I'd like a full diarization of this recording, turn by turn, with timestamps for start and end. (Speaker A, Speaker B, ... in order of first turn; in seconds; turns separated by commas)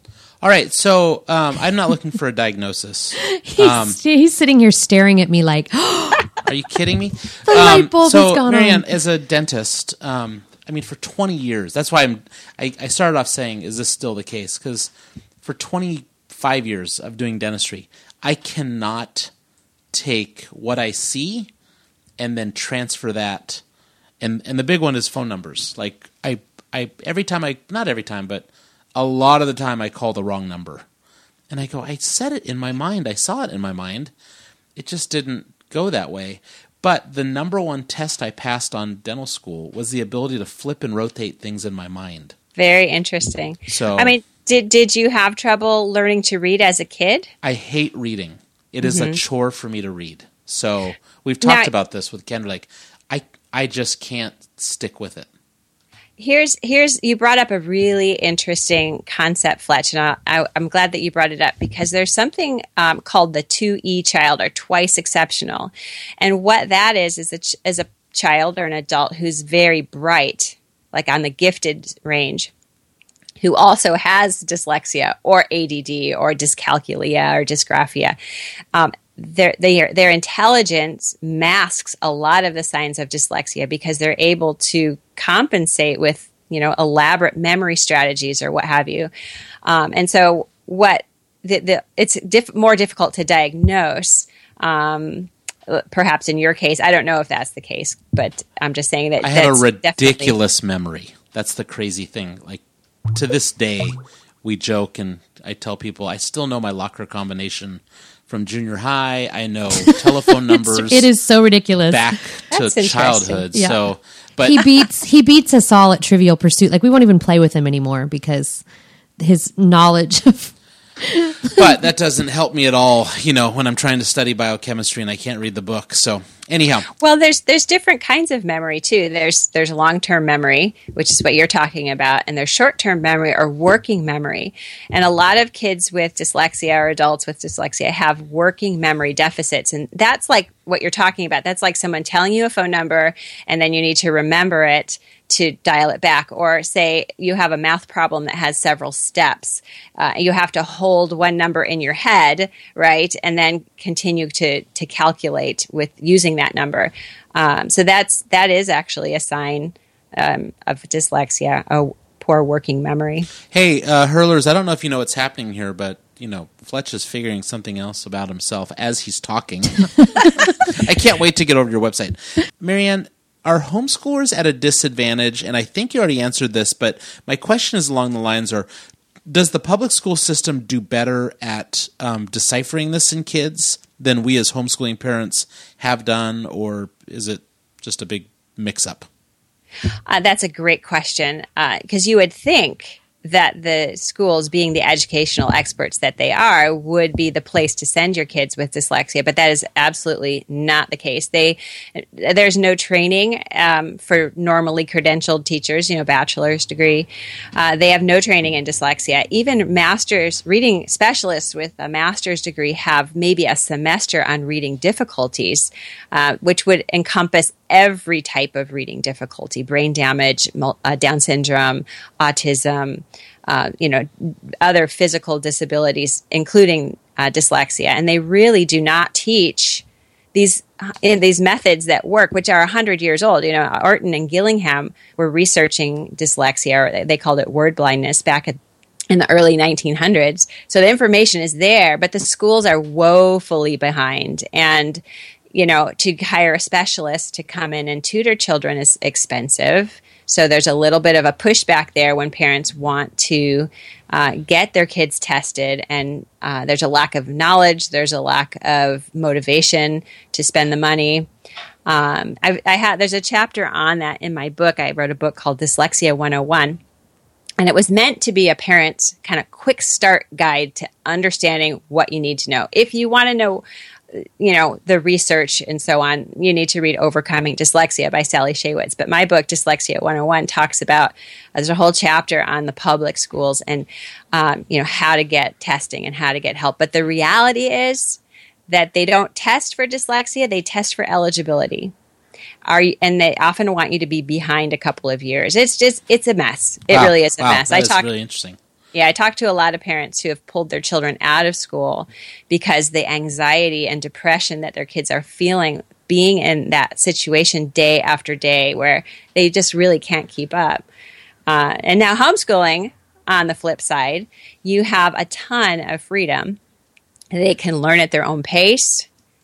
Speaker A: 0.4-4.0, Speaker B: 3.2-6.4, Speaker A: 6.4-19.3, Speaker B: 7.5-9.0, Speaker A: 19.9-21.5, Speaker A: 22.2-23.6, Speaker A: 24.2-30.8, Speaker A: 31.5-34.1, Speaker A: 34.8-42.3, Speaker C: 42.5-47.3, Speaker A: 43.7-44.1, Speaker A: 47.4-55.3, Speaker C: 48.8-49.2, Speaker C: 51.4-51.7, Speaker C: 56.2-72.5, Speaker C: 73.4-78.2, Speaker C: 78.7-89.1, Speaker C: 89.6-100.3, Speaker A: 99.2-102.6, Speaker A: 103.1-111.1, Speaker B: 109.8-112.2, Speaker A: 111.9-114.8, Speaker C: 112.5-113.4, Speaker B: 113.5-113.8, Speaker B: 114.5-118.6, Speaker B: 119.2-121.7, Speaker A: 121.5-126.9, Speaker C: 127.0-163.3, Speaker A: 163.5-178.7, Speaker A: 179.3-189.1, Speaker C: 190.1-238.6, Speaker C: 239.1-245.0, Speaker C: 245.5-261.3, Speaker C: 261.9-266.8, Speaker C: 267.6-273.6, Speaker C: 274.1-291.9, Speaker C: 292.6-298.0, Speaker A: 296.9-298.6, Speaker C: 298.9-310.8, Speaker C: 311.5-316.6, Speaker C: 317.3-319.1